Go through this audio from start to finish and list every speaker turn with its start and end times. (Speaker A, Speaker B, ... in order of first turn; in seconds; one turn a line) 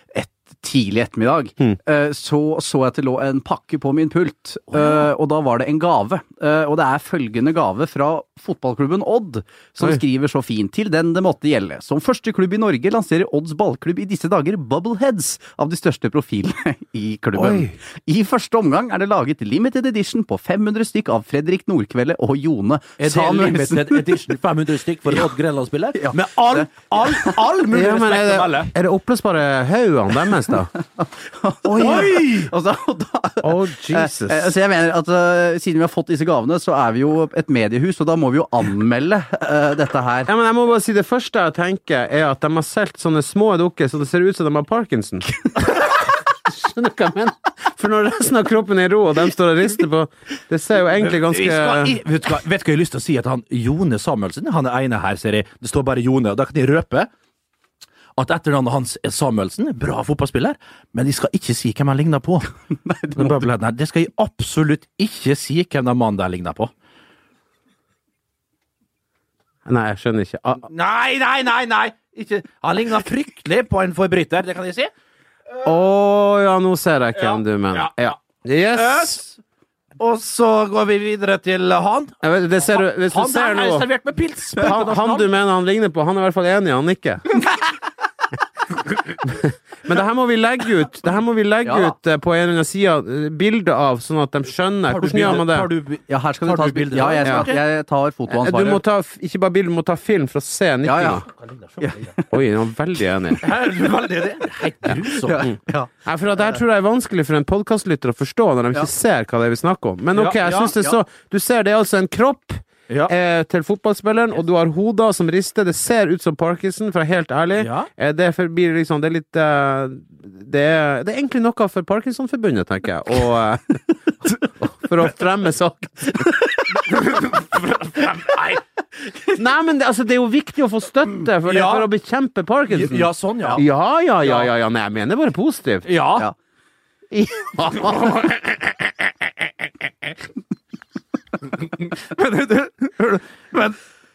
Speaker A: 0.1-24.1
Speaker B: 17.4-17.7
Speaker C: 23.0-28.7
Speaker A: 25.9-27.4
Speaker B: 27.7-30.7
Speaker A: 31.0-40.3
Speaker C: 31.6-32.5
Speaker B: 31.8-32.1
Speaker B: 33.4-34.5
Speaker B: 40.3-52.0
Speaker C: 51.0-57.1
Speaker C: 58.1-62.5
Speaker A: 62.9-63.3
Speaker C: 63.1-66.7
Speaker B: 69.7-70.7
Speaker C: 70.6-74.9
Speaker B: 75.6-79.2
Speaker C: 77.1-78.1
Speaker C: 78.7-79.4
Speaker C: 80.0-85.3
Speaker B: 82.2-83.9
Speaker B: 84.5-87.2
Speaker B: 89.2-95.7
Speaker A: 91.6-91.9
Speaker C: 94.9-97.6
Speaker A: 96.1-98.8
Speaker B: 97.2-97.5
Speaker B: 98.3-101.2
Speaker A: 100.8-101.2
Speaker C: 101.3-102.1
Speaker A: 101.8-102.3
Speaker B: 102.3-103.5
Speaker C: 103.4-105.5
Speaker A: 105.2-105.9
Speaker B: 106.0-126.3
Speaker C: 110.1-110.7
Speaker C: 117.6-117.9
Speaker C: 126.9-128.6
Speaker B: 129.3-135.9
Speaker C: 131.4-131.9
Speaker C: 132.7-133.6
Speaker C: 135.9-136.3
Speaker B: 137.1-138.4
Speaker A: 142.2-142.9
Speaker C: 143.0-143.8